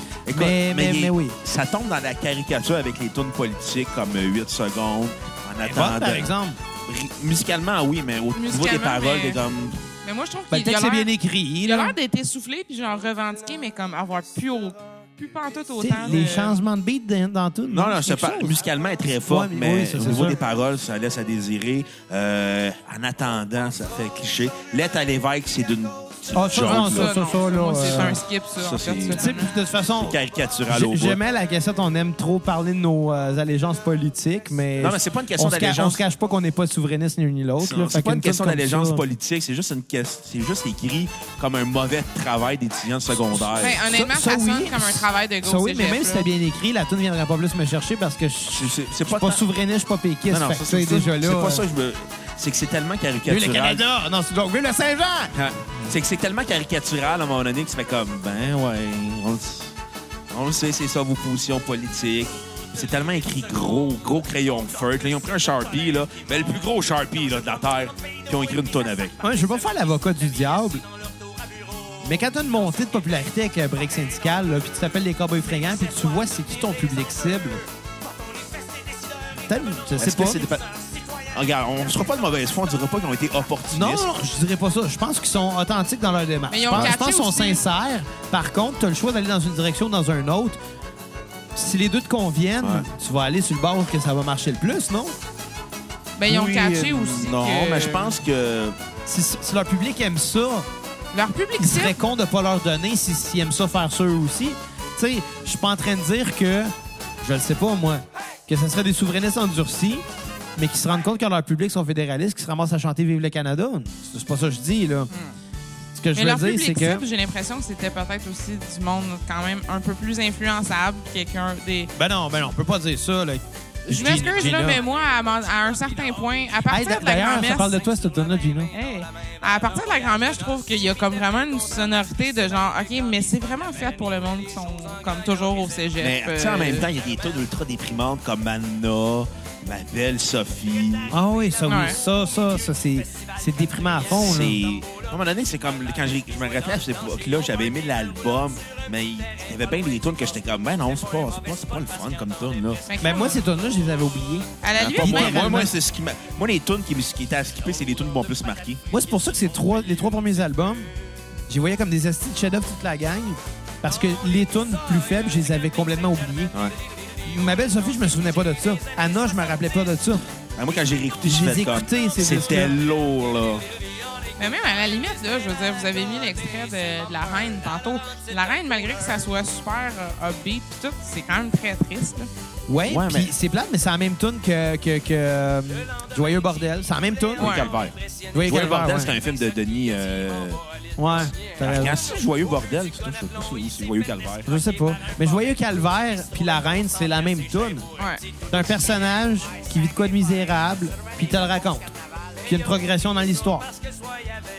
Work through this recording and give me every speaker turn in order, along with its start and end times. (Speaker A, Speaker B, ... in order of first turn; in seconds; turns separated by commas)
Speaker A: 0.3-6.3, Speaker B: 0.3-1.4, Speaker B: 5.6-6.6, Speaker A: 6.9-9.8, Speaker C: 8.3-9.4, Speaker C: 10.0-11.1, Speaker B: 10.5-11.9, Speaker C: 11.6-16.6, Speaker B: 15.8-18.6, Speaker A: 17.7-27.1, Speaker B: 19.3-20.4, Speaker B: 26.3-28.2, Speaker C: 26.6-29.5, Speaker A: 28.6-29.2, Speaker B: 29.2-30.1, Speaker A: 30.0-31.2, Speaker B: 30.7-39.0, Speaker A: 34.8-36.0, Speaker A: 37.6-43.8, Speaker C: 43.5-46.3, Speaker B: 43.9-51.6, Speaker A: 48.5-49.4, Speaker A: 50.3-53.8, Speaker B: 53.3-55.9, Speaker A: 55.3-59.7, Speaker A: 60.3-69.2, Speaker B: 69.2-70.8, Speaker B: 72.0-77.6, Speaker B: 79.5-80.4, Speaker A: 80.0-80.7, Speaker A: 81.3-84.1, Speaker B: 83.7-90.6, Speaker C: 86.5-87.6, Speaker B: 91.6-95.2, Speaker A: 92.6-92.9, Speaker C: 96.2-98.2, Speaker A: 96.3-98.8, Speaker B: 99.1-100.7, Speaker C: 101.1-102.0, Speaker B: 101.6-110.0, Speaker B: 110.6-115.1, Speaker C: 115.1-115.3, Speaker B: 116.0-117.0, Speaker C: 116.2-121.9, Speaker B: 122.0-124.8, Speaker C: 123.9-127.8, Speaker B: 126.7-128.7, Speaker C: 128.7-136.9, Speaker A: 136.0-141.1, Speaker B: 141.1-144.6, Speaker C: 141.7-142.0, Speaker A: 144.1-152.9, Speaker C: 152.9-153.4, Speaker B: 153.0-155.7, Speaker C: 154.6-155.6, Speaker A: 154.8-158.8, Speaker B: 158.9-160.9, Speaker B: 161.5-166.5, Speaker B: 167.2-170.3, Speaker A: 170.6-173.6, Speaker B: 171.2-172.8, Speaker C: 174.4-182.3, Speaker B: 182.7-187.5, Speaker A: 182.9-183.3, Speaker A: 187.4-187.9, Speaker C: 187.4-187.7, Speaker B: 188.3-189.2, Speaker A: 188.5-190.6, Speaker B: 191.0-192.0, Speaker A: 191.6-194.5, Speaker B: 194.5-197.9, Speaker B: 198.5-201.9, Speaker B: 202.5-203.7